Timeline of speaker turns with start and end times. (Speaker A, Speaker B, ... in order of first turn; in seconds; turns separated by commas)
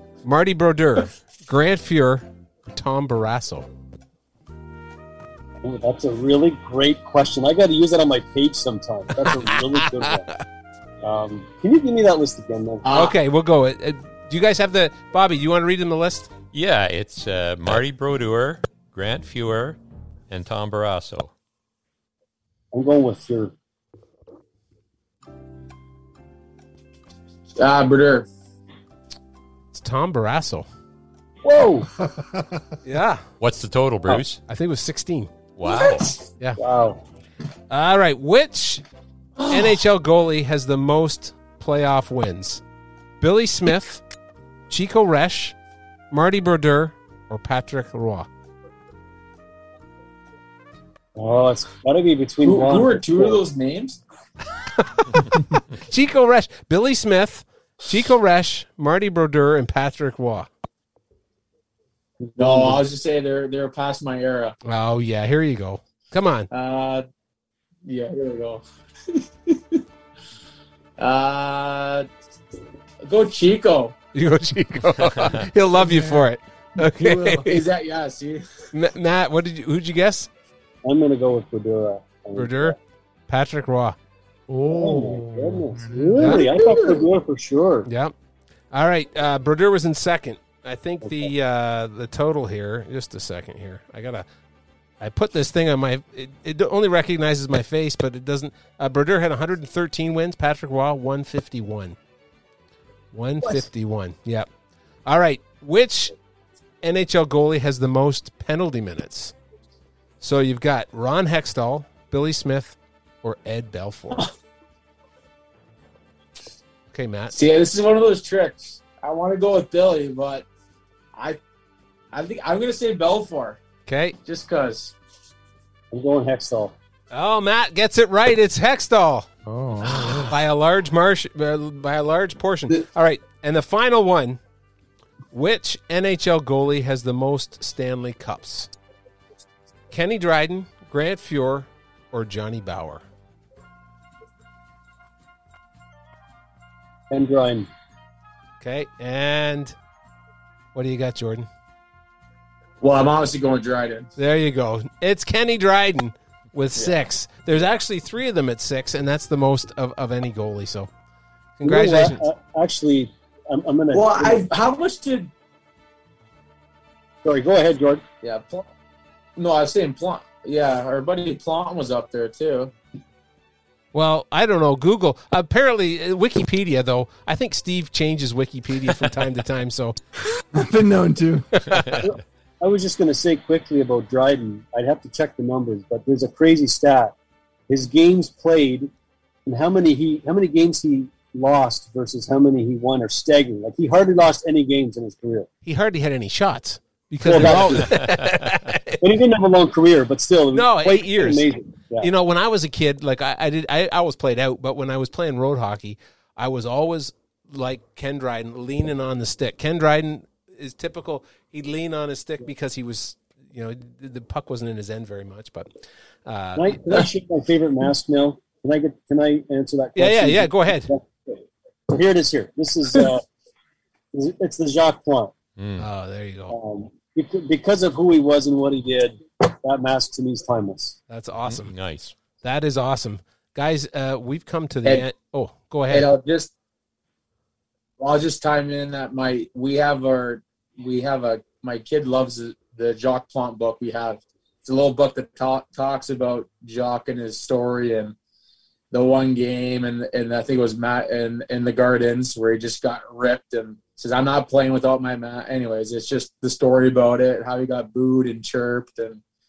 Speaker A: 0.2-3.7, Speaker B: 5.6-10.3, Speaker A: 9.2-10.3, Speaker B: 11.0-12.8, Speaker C: 12.8-13.1, Speaker A: 12.9-16.3, Speaker D: 16.5-21.3, Speaker B: 22.7-23.5, Speaker C: 27.6-28.2, Speaker A: 29.7-30.6, Speaker B: 31.4-31.9, Speaker A: 32.8-33.2, Speaker D: 33.4-34.4, Speaker A: 34.5-35.3, Speaker D: 35.6-36.1, Speaker C: 35.7-36.1, Speaker B: 36.6-37.0, Speaker A: 37.7-38.8, Speaker C: 39.4-39.7, Speaker A: 39.5-42.6, Speaker A: 43.2-44.0, Speaker A: 44.7-45.5, Speaker A: 46.1-48.3, Speaker B: 51.1-53.4, Speaker C: 52.4-54.0, Speaker A: 54.9-60.5, Speaker B: 62.2-62.8, Speaker C: 62.4-64.5, Speaker A: 64.6-66.5, Speaker C: 66.5-67.0, Speaker C: 67.8-69.8, Speaker C: 71.0-72.1, Speaker C: 73.0-73.9, Speaker A: 74.1-77.6, Speaker E: 75.8-76.2, Speaker E: 76.8-77.5, Speaker C: 77.5-78.4, Speaker A: 78.7-80.3, Speaker B: 80.8-82.8, Speaker A: 82.3-82.8, Speaker A: 83.3-84.0, Speaker E: 84.5-87.0, Speaker B: 84.7-87.9, Speaker A: 86.2-86.5, Speaker A: 87.9-88.1, Speaker A: 88.7-94.2, Speaker B: 91.0-91.3, Speaker A: 95.0-102.0, Speaker A: 103.1-104.5, Speaker A: 105.0-106.1, Speaker A: 106.8-109.3, Speaker A: 110.2-114.2, Speaker A: 116.9-117.3, Speaker C: 117.3-120.4, Speaker C: 122.1-123.6, Speaker A: 123.8-124.2, Speaker C: 124.2-124.9, Speaker B: 125.9-126.7, Speaker A: 127.1-129.3, Speaker E: 129.4-130.3, Speaker A: 129.8-134.4, Speaker A: 135.3-138.7, Speaker A: 139.9-143.0, Speaker B: 147.1-147.7, Speaker A: 148.6-149.7, Speaker A: 150.7-151.5, Speaker C: 152.8-154.1, Speaker A: 154.2-160.9, Speaker A: 161.6-162.2, Speaker B: 161.6-164.5, Speaker C: 163.9-165.3, Speaker B: 167.2-168.0, Speaker C: 168.2-168.7, Speaker C: 169.3-172.7, Speaker A: 173.9-180.0, Speaker E: 180.5-181.5, Speaker A: 181.6-182.0, Speaker B: 182.0-187.1, Speaker B: 187.7-188.9, Speaker B: 189.4-195.5, Speaker A: 195.6-199.0, Speaker B: 197.2-198.1, Speaker B: 199.0-202.1, Speaker A: 200.5-215.7, Speaker A: 216.2-217.0, Speaker B: 216.5-223.2, Speaker A: 219.9-220.9, Speaker B: 224.1-225.3, Speaker D: 225.6-225.9, Speaker A: 225.8-226.6, Speaker B: 226.5-231.0, Speaker A: 231.1-231.8, Speaker D: 231.4-232.1, Speaker A: 232.4-236.1, Speaker C: 235.9-236.5, Speaker C: 238.0-248.2, Speaker C: 248.9-259.2